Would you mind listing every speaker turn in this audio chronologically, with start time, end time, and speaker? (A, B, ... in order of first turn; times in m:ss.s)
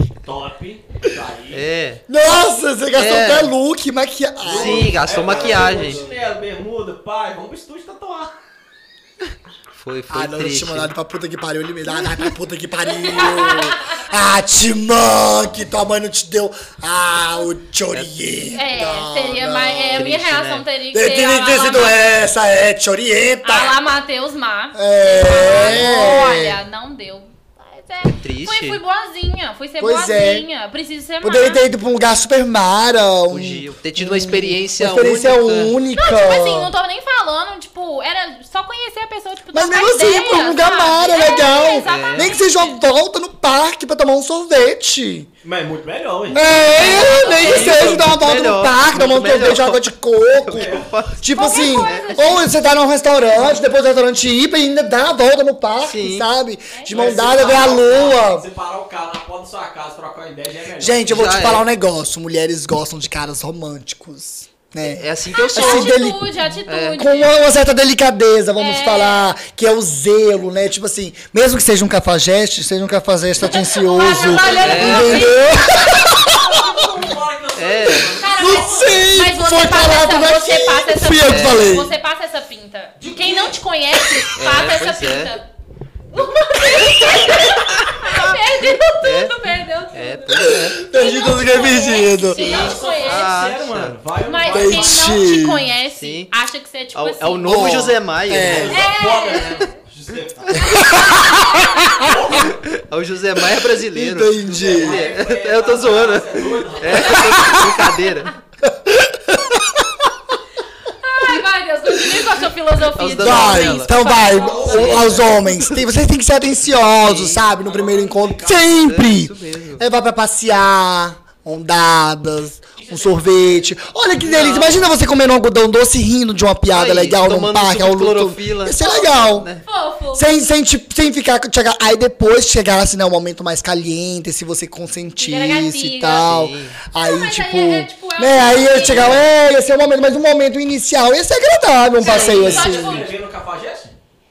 0:00.2-0:01.6 A
0:01.5-0:02.0 B
0:02.1-0:06.2 C
0:02.9-0:03.5 B
0:04.4-0:08.3 A
0:04.4-0:06.0 B
0:09.7-0:10.9 B
0:10.1-0:20.1 C
0:12.9-0:14.0 D
0:18.5-0:22.1 D
0:19.9-0:20.7 B
0:20.9-0:23.8 C
0:23.4-0:31.6 D
0:24.7-0:26.6 C
0:25.3-0:26.2 B
0:28.1-0:28.8 B
0:29.8-0:30.4 C
0:31.2-0:36.7 C
0:33.3-0:35.8 B
0:36.0-0:42.8 D
0:39.5-0:45.3 C
0:41.8-0:42.4 B
0:45.4-0:47.3 A
0:46.3-0:58.5 C
0:46.7-0:47.8 D
0:46.7-0:49.9 B
0:50.4-0:52.4 B
0:50.5-0:50.9 A
0:51.3-0:52.7 D
0:55.8-0:56.3 B
0:56.7-0:57.2 D
0:56.9-1:01.3 A
1:00.8-1:16.8 C
1:01.1-1:01.6 B
1:04.9-1:06.0 B
1:05.5-1:07.4 D
1:06.7-1:07.0 B
1:08.6-1:09.3 D
1:13.4-1:15.9 D
1:14.4-1:15.4 B
1:16.2-1:19.1 A
1:17.6-1:18.2 B
1:18.2-1:25.5 D
1:18.4-1:22.0 C
1:21.3-1:21.8 B
1:23.0-1:23.6 A
1:24.4-1:25.4 B
1:26.1-1:33.3 D
1:27.0-1:30.8 B
1:30.3-1:32.7 C
1:32.4-1:34.0 B
1:32.4-1:35.2 A
1:34.2-1:37.8 D
1:34.5-1:35.7 C
1:36.0-1:36.3 B
1:37.0-1:38.8 B
1:37.4-1:38.8 C
1:38.4-1:42.6 A
1:38.7-1:39.7 D
1:40.5-1:42.1 C
1:40.8-1:42.1 D
1:42.4-1:48.4 B
1:43.9-1:45.0 C
1:44.5-1:47.6 A
1:47.1-1:47.8 C
1:47.1-1:47.7 D
1:48.6-1:49.9 C
1:50.9-1:55.2 D
1:52.0-1:52.3 C
1:53.0-1:53.9 B
1:53.2-2:09.5 C
1:54.3-1:55.3 A
1:54.7-1:55.8 B
1:57.0-1:57.4 B
1:57.6-1:58.8 A
1:58.8-1:59.8 B
2:02.8-2:03.7 A
2:04.2-2:04.8 B
2:04.4-2:04.6 A
2:06.7-2:09.6 B
2:09.6-2:10.3 D
2:10.2-2:23.1 C
2:15.2-2:16.3 D
2:16.1-2:16.8 B
2:17.0-2:19.2 D
2:18.7-2:19.3 B
2:22.0-2:22.7 B
2:22.0-2:23.1 D
2:22.1-2:23.9 A